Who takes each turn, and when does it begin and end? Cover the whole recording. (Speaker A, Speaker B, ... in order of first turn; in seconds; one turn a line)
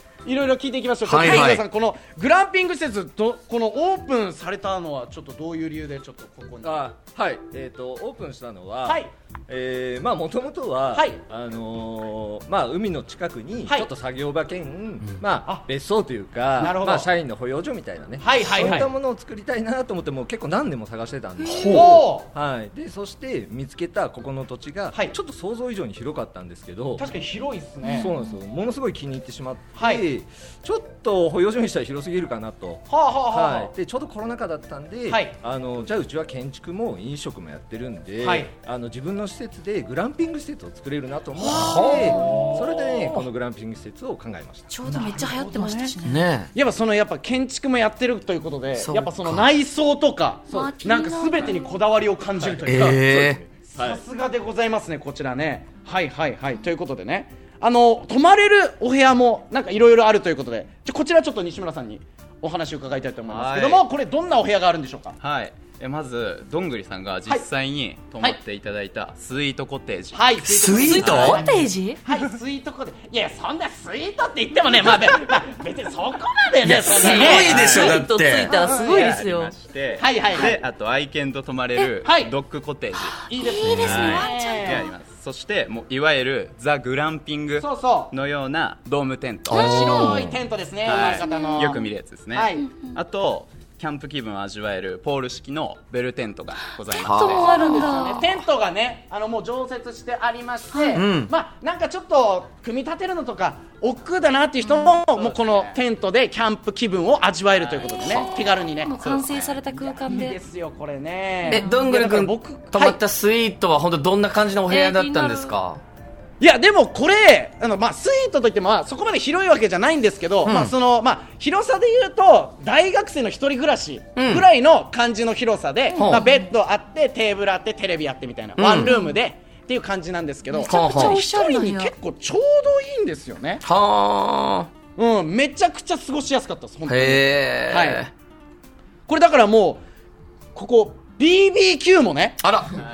Speaker A: 0.2-6.8
Speaker B: 1.0-1.6
Speaker C: 6.6-27.1
Speaker A: 8.8-9.1
Speaker A: 10.9-11.2
Speaker A: 16.6-17.1
Speaker A: 18.2-18.9
Speaker D: 21.4-21.7
Speaker B: 21.4-22.0
Speaker A: 21.7-22.3
Speaker A: 24.9-25.2
Speaker A: 26.9-28.1
Speaker D: 27.8-28.3
Speaker C: 28.0-44.7
Speaker A: 29.8-30.1
Speaker A: 32.9-33.7
Speaker A: 35.1-35.4
Speaker A: 38.2-38.5
Speaker A: 41.4-43.2
Speaker B: 41.4-42.1
Speaker D: 44.7-46.2
Speaker A: 44.9-45.9
Speaker B: 46.0-46.5
Speaker A: 46.5-65.1
Speaker B: 48.8-49.5
Speaker D: 50.5-51.7
Speaker B: 52.6-53.4
Speaker E: 63.3-63.8
Speaker E: 65.2-70.3
Speaker A: 70.1-77.8
Speaker B: 70.4-71.4
Speaker D: 70.9-72.0
Speaker B: 76.6-78.5
Speaker D: 77.0-79.5
Speaker E: 77.4-77.9
Speaker A: 78.5-79.1
Speaker E: 78.9-83.2
Speaker A: 80.0-80.6
Speaker A: 82.0-82.3
Speaker D: 83.2-84.9
Speaker A: 83.2-84.8
Speaker B: 83.6-84.2
Speaker E: 83.8-89.6
Speaker A: 87.6-88.1
Speaker B: 89.5-90.3
Speaker A: 89.5-91.8
Speaker D: 89.5-90.2
Speaker E: 90.8-97.4
Speaker D: 91.0-91.9
Speaker A: 92.3-92.7
Speaker D: 92.6-93.0
Speaker D: 96.9-98.2
Speaker B: 97.0-97.5
Speaker A: 97.2-113.0
Speaker D: 100.7-101.0
Speaker B: 100.9-101.3
Speaker D: 104.6-105.1
Speaker D: 108.0-110.4
Speaker D: 111.5-111.8
Speaker B: 111.5-115.8
Speaker D: 114.7-115.5
Speaker A: 116.4-133.6
Speaker B: 120.4-120.7
Speaker B: 124.2-124.4
Speaker D: 125.9-126.5
Speaker B: 126.0-126.2
Speaker B: 128.6-129.0
Speaker D: 128.8-129.1
Speaker D: 130.5-131.9
Speaker B: 130.6-131.2
Speaker B: 133.6-134.7
Speaker A: 134.9-138.0
Speaker B: 136.9-138.1
Speaker A: 139.1-139.8
Speaker A: 140.5-142.4
Speaker B: 142.4-142.8